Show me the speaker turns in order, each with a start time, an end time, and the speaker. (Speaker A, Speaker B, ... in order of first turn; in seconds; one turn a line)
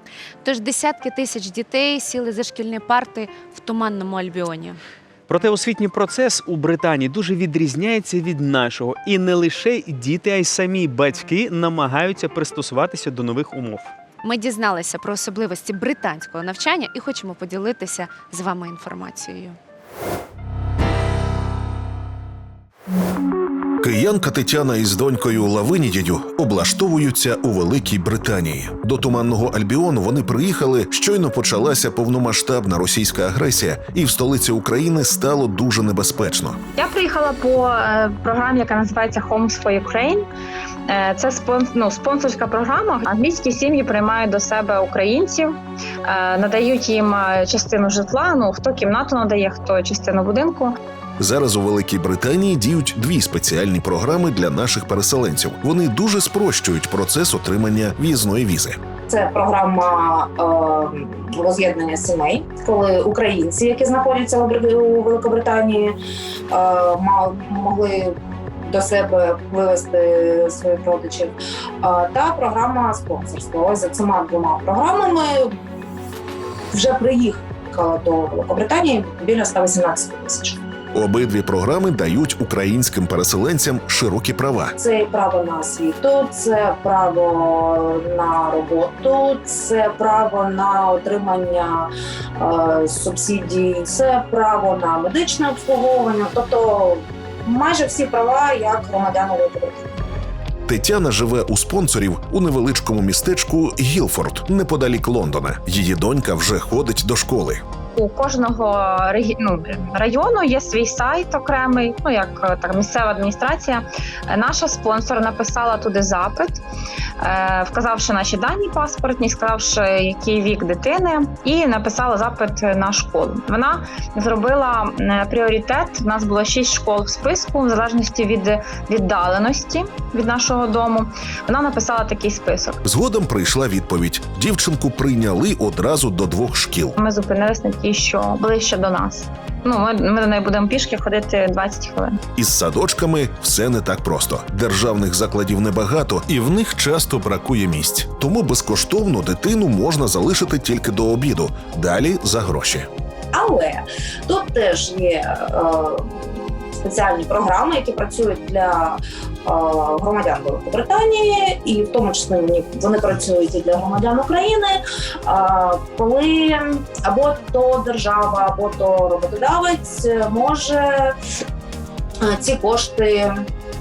Speaker A: 0.5-4.8
Speaker B: 5.3-13.9
Speaker A: 14.2-19.6
Speaker C: 23.8-36.6
Speaker D: 36.8-40.3
Speaker D: 40.9-50.8
Speaker C: 51.2-58.8
Speaker E: 59.1-66.0
Speaker E: 66.5-75.5
Speaker E: 76.7-80.6
Speaker C: 80.9-84.8
Speaker E: 84.8-99.8
Speaker C: 100.7-107.6
Speaker D: 107.9-116.6
Speaker D: 117.2-132.8
Speaker C: 132.8-137.0
Speaker D: 137.0-142.2
Speaker C: 142.3-152.9
Speaker E: 153.3-171.1
Speaker E: 172.2-173.4